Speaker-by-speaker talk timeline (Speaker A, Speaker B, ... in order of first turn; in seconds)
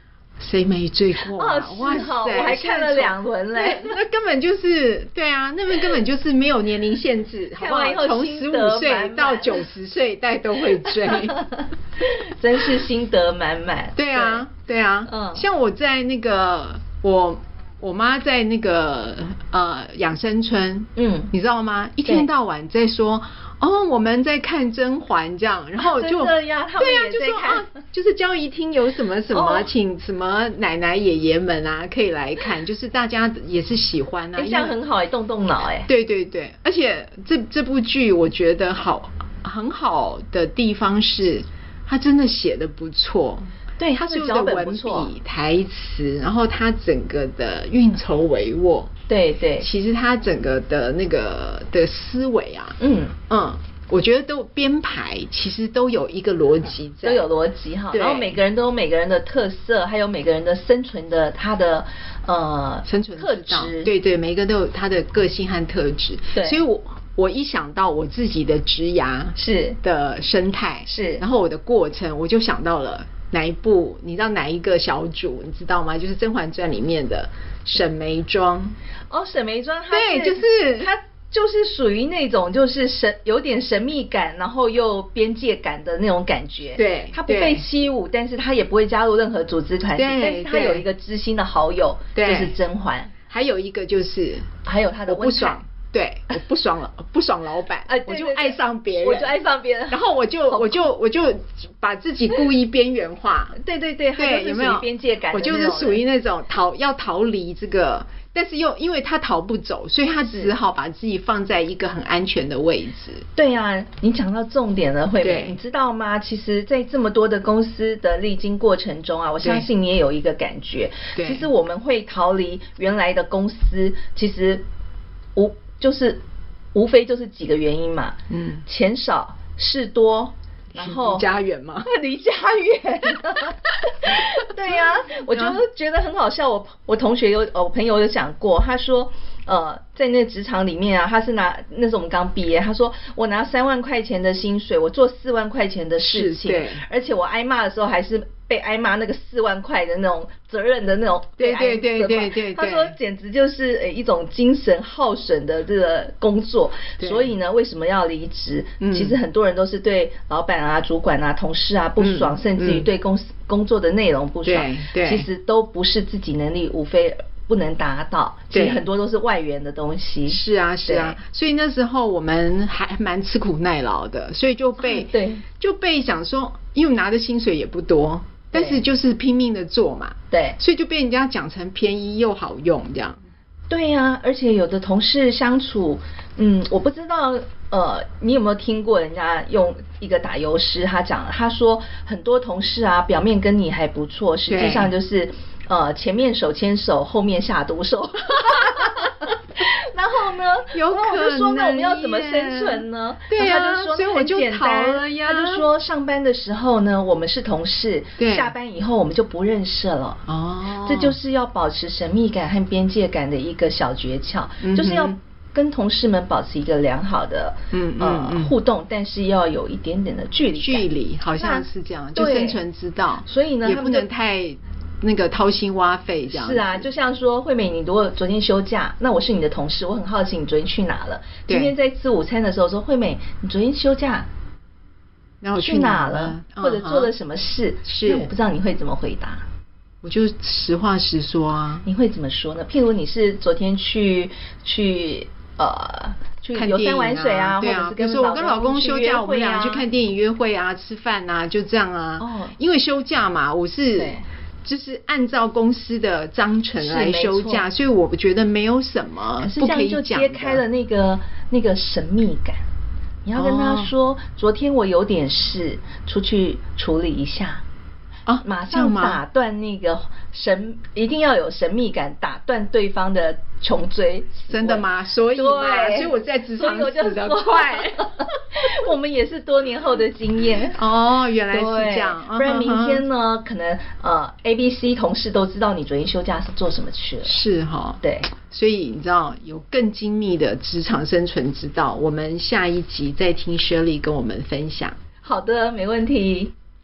Speaker A: 0.4-11.4, 14.0-34.8, 35.9-48.9, 49.6-52.8, 53.3-57.3, 57.9-58.4, 62.9-78.8, 79.9-80.9, 86.8-87.6, 90.0-90.8, 92.1-92.5, 93.3-94.5, 95.1-99.4, 99.9-103.6, 104.2-113.2, 115.2-115.6, 119.4-119.7, 121.2-121.5, 128.3-128.6, 130.7-131.9, 146.0-146.8, 151.4-152.9, 157.0-157.3, 158.8-159.2, 162.0-162.9, 164.4-165.3, 168.5-168.8, 170.3-183.2, 194.5-194.9, 200.7-205.6, 208.2-208.5, 210.2-211.2, 214.6-215.2, 217.7-218.5, 220.6-226.9, 231.5-231.7, 235.4-237.1, 237.8-238.3, 240.0-241.8, 246.5-260.6, 263.3-263.9, 268.3-269.2, 274.5-278.0, 280.7-283.0, 287.2-295.0
Speaker B: 1.2-4.0, 7.6-9.7, 10.9-14.4, 15.1-15.4, 20.9-21.3, 25.8-27.7, 29.3-29.7, 34.4-35.9, 43.8-45.1, 49.1-49.7, 52.8-53.2, 57.0-63.9, 66.3-66.6, 69.3-69.8, 70.9-71.2, 79.1-93.1, 94.6-95.6, 97.8-100.9, 103.5-106.0, 113.3-124.6, 125.3-126.2, 126.7-131.3, 131.8-171.2, 174.8-175.4, 178.5-178.8, 180.3-180.6, 183.7-210.2, 210.8-222.6, 223.2-224.1, 226.3-234.3, 235.6-239.4, 241.8-249.9, 252.2-252.6, 253.9-254.2, 256.8-257.6, 259.4-262.6, 263.2-267.6, 268.4-280.8, 281.5-287.4, 288.0-288.3, 295.2-296.5